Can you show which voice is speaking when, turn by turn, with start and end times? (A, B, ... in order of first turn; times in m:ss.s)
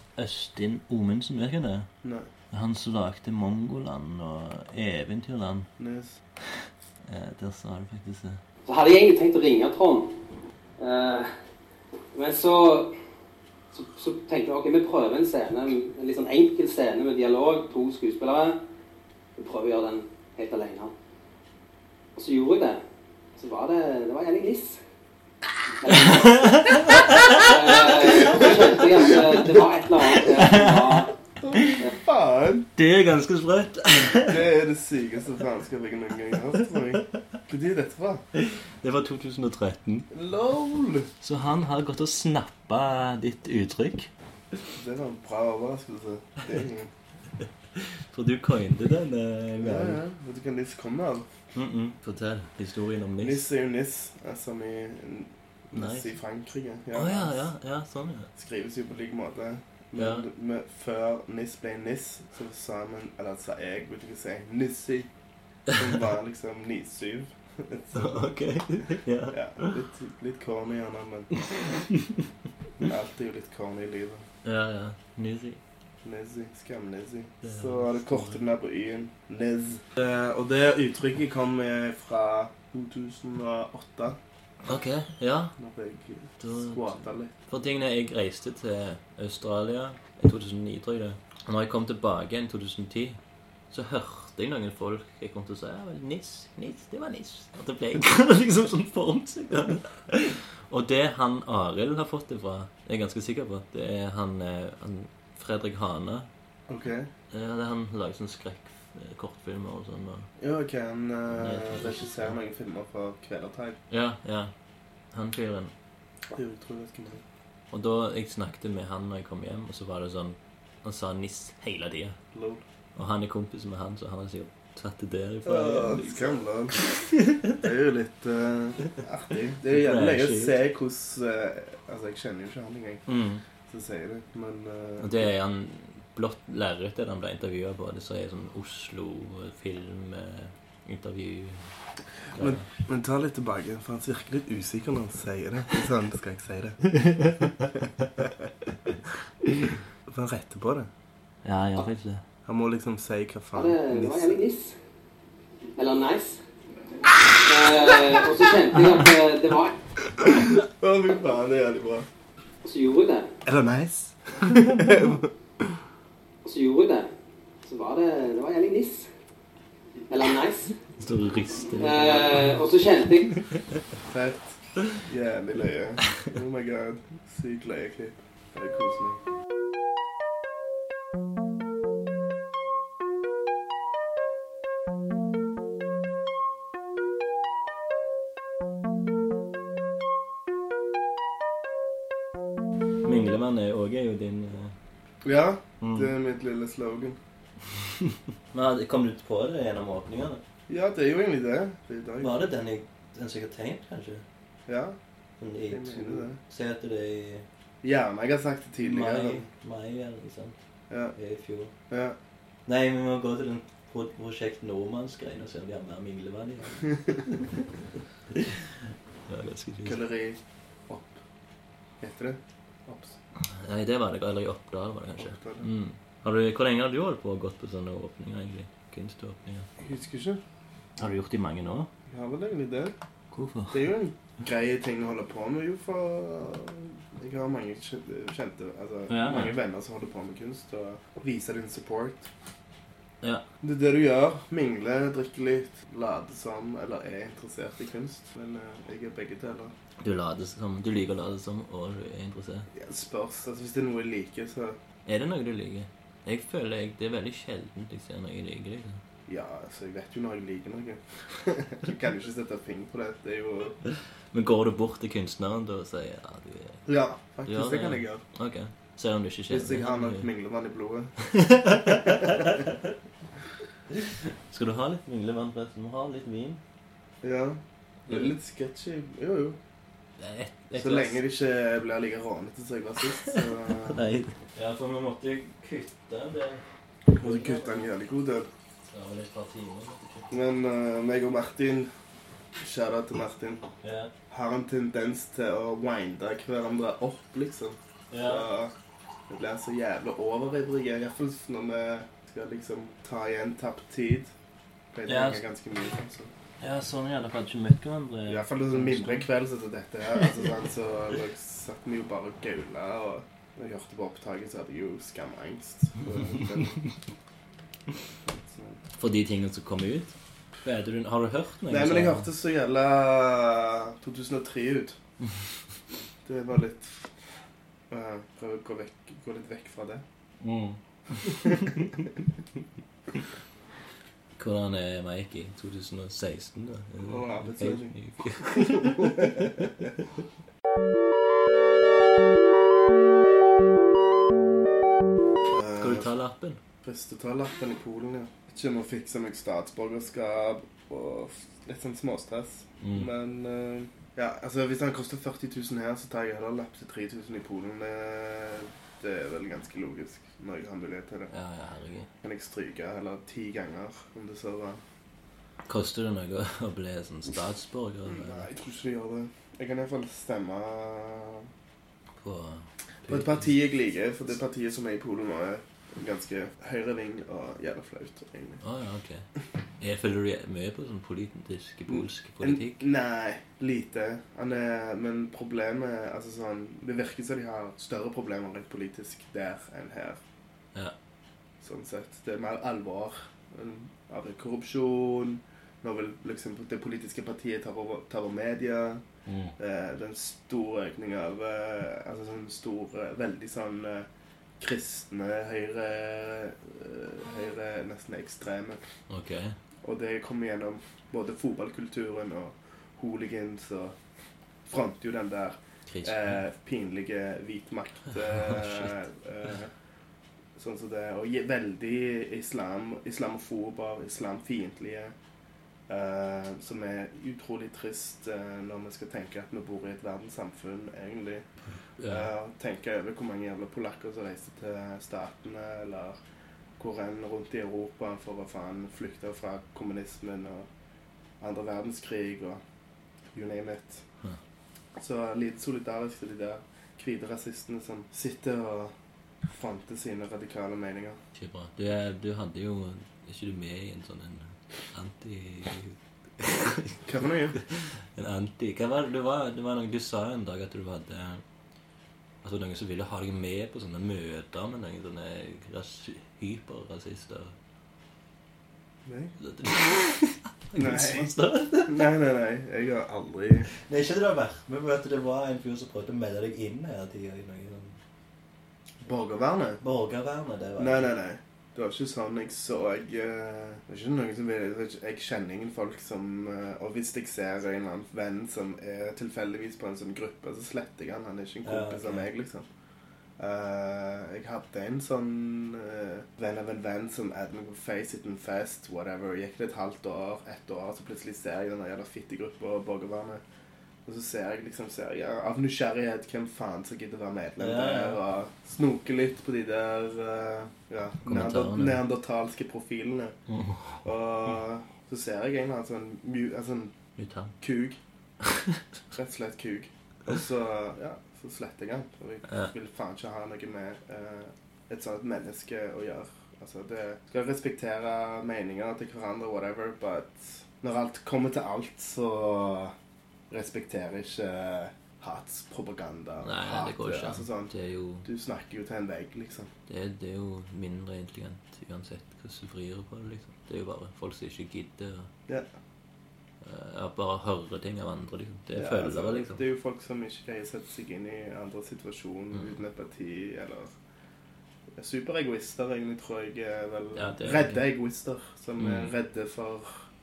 0:00.1-0:01.9 A
0:02.0-0:02.3 B
0:02.5-0:05.7 A
0:05.8-0:06.2 B
0:06.6-0:08.4 A
0:08.6-0:11.4 C
0:12.1-0:13.0 C
0:13.7-0:18.6 C
0:19.4-0:20.9 C
0:22.2-0:22.8 C
0:23.4-0:24.8 C
0:25.8-0:31.2 C
0:25.8-0:29.6 A
0:28.2-0:28.6 B
0:30.1-0:31.8 A
0:31.4-0:32.7 B
0:32.8-0:34.4 A
0:34.2-0:38.2 B
0:36.9-0:37.2 A
0:38.3-0:40.1 A
0:40.1-0:41.1 B
0:41.2-0:44.1 A
0:44.7-0:46.9 B
0:47.4-0:50.0 A
0:49.6-0:51.3 B
0:51.5-0:53.5 A
0:53.2-0:57.4 B
0:55.7-0:56.2 A
0:56.9-0:58.3 A
0:58.4-1:05.1 B
1:00.0-1:00.3 A
1:05.7-1:08.3 B
1:07.9-1:09.7 A
1:09.3-1:11.5 B
1:11.9-1:12.2 A
1:12.8-1:14.2 B
1:14.4-1:15.6 A
1:16.0-1:24.2 B
1:17.4-1:18.4 A
1:24.6-1:25.6 A
1:25.6-1:27.3 B
1:26.4-1:33.2 A
1:33.7-1:46.3 A
1:46.7-1:47.1 B
1:47.3-1:50.3 A
1:50.4-1:53.8 B
1:51.3-1:52.4 A
1:53.9-1:54.5 A
1:55.1-1:55.7 A
1:56.3-1:57.2 B
1:57.7-2:02.2 A
2:02.3-2:02.6 B
2:02.9-2:07.6 A
2:05.4-2:06.9 B
2:07.5-2:13.0 B
2:09.7-2:10.6 A
2:13.1-2:13.4 A
2:13.6-2:15.3 B
2:15.0-2:22.7 A
2:22.4-2:27.0 B
2:26.9-2:28.1 A
2:30.1-2:30.9 B
2:31.4-2:32.2 A
2:32.4-2:34.4 B
2:33.5-2:34.8 C
2:35.7-2:36.4 C
2:37.3-2:40.2 C
2:40.2-2:42.1 B
2:42.6-2:43.4 C
2:43.4-2:45.8 B
2:46.4-2:47.1 C
2:47.6-2:49.1 C
2:50.1-2:50.8 C
2:51.0-2:52.6 A
2:51.8-2:53.4 C
2:53.3-2:53.8 A
2:54.0-2:59.2 B
3:13.0-3:14.7 A
3:15.2-3:17.2 B
3:15.8-3:16.1 A
3:18.0-3:20.4 A
3:20.7-3:22.4 B
3:22.2-3:24.2 A
3:24.7-3:25.0 B
3:25.4-3:27.4 A
3:25.7-3:26.4 B
3:27.8-3:29.5 B
3:28.8-3:30.6 A
3:31.1-3:31.7 A
3:31.9-3:32.2 B
3:32.6-3:37.7 A
3:38.3-3:40.0 A
3:39.8-3:41.2 B
3:42.0-3:43.2 B
3:43.4-3:49.7 A
3:45.2-3:45.7 B
3:49.8-3:50.4 B
3:51.0-3:51.9 A
3:52.1-3:52.9 B
3:53.3-3:53.8 A
3:53.7-4:02.3 B
3:59.1-3:59.5 A
4:03.6-4:09.7 B
4:10.0-4:12.7 A
4:12.7-4:14.8 B
4:15.0-4:19.0 A
4:19.3-4:23.8 B
4:24.3-4:26.8 A
4:26.8-4:28.2 B
4:27.5-4:30.3 A
4:29.5-4:31.2 B
4:31.3-4:32.9 A
4:32.0-4:32.4 B
4:33.9-4:36.6 A
4:37.2-4:39.6 B
4:38.1-4:38.3 A
4:40.2-4:41.2 A
4:40.7-4:44.0 B
4:43.3-4:47.9 A
4:47.1-4:48.5 B
4:48.9-4:50.3 A
4:50.3-4:51.9 B
4:52.6-4:53.6 B
4:53.8-4:54.1 A
4:54.3-4:58.7 B
4:58.1-4:58.5 A
4:59.3-5:04.3 B
5:04.9-5:06.3 B
5:05.1-5:05.4 A
5:06.6-5:09.3 A
5:08.3-5:16.9 B
5:18.2-5:18.8 B
5:19.0-5:22.3 A
5:21.7-5:25.0 B
5:26.2-5:27.2 B
5:27.9-5:30.0 B
5:30.4-5:32.0 A
5:31.2-5:32.0 B
5:34.4-5:40.1 A
5:37.0-5:39.7 B
5:45.4-5:46.1 B
5:45.8-5:46.6 A
5:46.8-6:01.3 B
5:52.8-5:53.1 A
6:01.3-6:02.1 A
6:02.2-6:04.8 B
6:05.7-6:08.5 A
6:08.0-6:11.5 B
6:12.2-6:13.5 A
6:13.1-6:18.6 B
6:18.6-6:19.3 A
6:19.8-6:22.8 A
6:21.9-6:30.2 B
6:31.6-6:39.0 B
6:39.2-6:39.5 A
6:39.6-6:44.1 B
6:44.6-6:48.8 B
6:49.1-6:49.6 A
6:49.8-6:53.9 B
6:54.6-6:59.7 B
6:55.9-6:56.4 A
6:58.4-6:59.0 A
7:00.6-7:05.1 B
7:05.9-7:11.4 B
7:12.0-7:12.3 A
7:12.0-7:16.2 B
7:16.8-7:20.7 B
7:21.4-7:22.6 B
7:23.3-7:24.0 B
7:25.0-7:28.9 B
7:29.5-7:31.2 B
7:31.3-7:37.0 A
7:37.0-7:37.6 B
7:37.6-7:41.4 A
7:42.4-7:47.5 A
7:49.0-7:49.4 B
7:49.4-7:52.1 A
7:50.8-7:51.3 B
7:51.9-7:53.7 B
7:53.8-7:58.0 A
7:59.0-7:59.8 B
7:59.8-8:01.2 A
8:00.8-8:12.6 B
8:11.6-8:12.3 A
8:13.4-8:23.4 B
8:24.0-8:33.4 B
8:27.6-8:28.2 A
8:31.2-8:32.0 A
8:33.5-8:34.0 A
8:34.0-8:36.9 B
8:37.2-8:37.6 A
8:37.6-8:38.0 B
8:38.4-8:38.8 A
8:39.1-8:52.9 B
8:42.5-8:42.7 A
8:53.5-8:57.7 B
8:56.4-8:58.3 A
8:58.2-8:59.7 B
8:59.9-9:05.3 A
9:06.6-9:09.6 A
9:08.7-9:13.9 B
9:15.0-9:20.1 B
9:17.1-9:17.8 A
9:18.8-9:19.1 A